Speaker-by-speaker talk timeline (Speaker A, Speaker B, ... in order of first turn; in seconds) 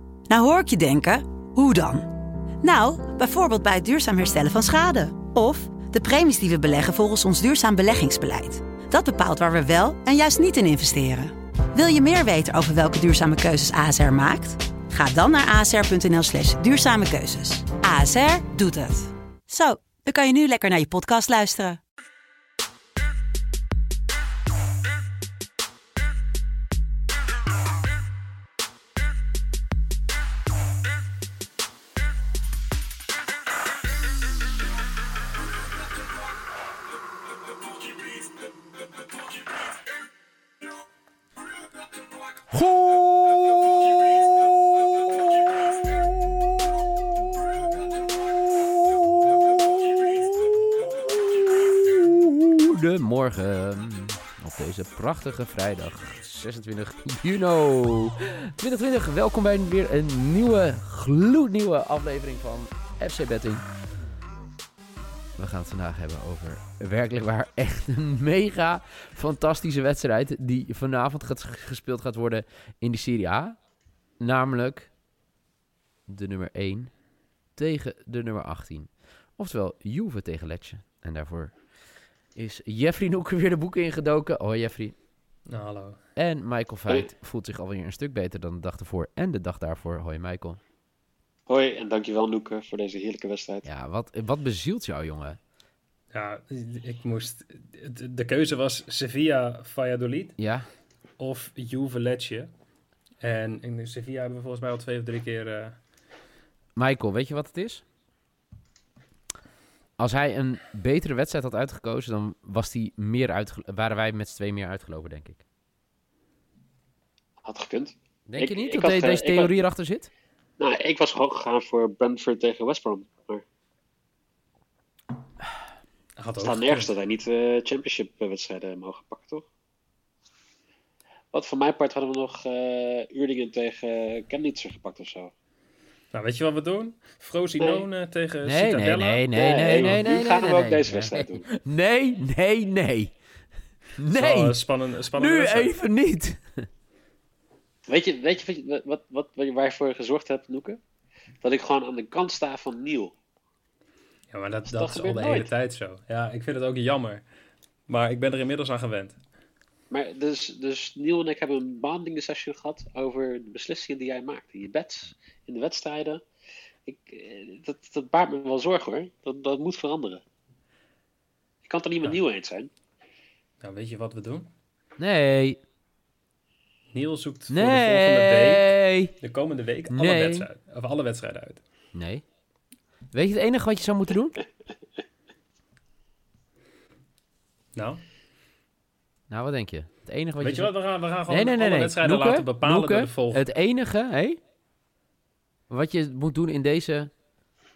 Speaker A: 0.3-21.8
Speaker B: 42.5-63.6, 65.4-73.6, 74.2-74.9, 76.1-77.0, 77.5-85.0, 86.2-90.6, 93.6-95.4, 100.4-100.7, 106.8-107.8, 110.0-115.4, 118.3-120.1, 138.4-143.1, 144.0-146.7, 175.0-175.6, 177.5-179.1, 179.9-180.5, 181.9-182.2, 183.1-184.4, 189.3-194.4, 195.7-197.1
Speaker C: 85.5-86.0, 96.1-100.3, 101.2-102.5, 103.2-105.8, 126.2-126.9, 136.1-139.2, 144.1-145.7, 154.3-157.2, 157.9-159.2, 173.6-174.5, 176.9-178.7, 179.2-181.6, 187.8-188.0, 190.4-193.4
Speaker D: 91.5-93.7, 117.4-119.6, 120.6-123.4, 126.4-129.5, 131.3-135.3, 137.6-137.9, 139.3-141.5, 147.9-150.8, 151.4-153.1, 154.7-155.5, 159.9-166.2, 166.9-170.2, 171.6-172.7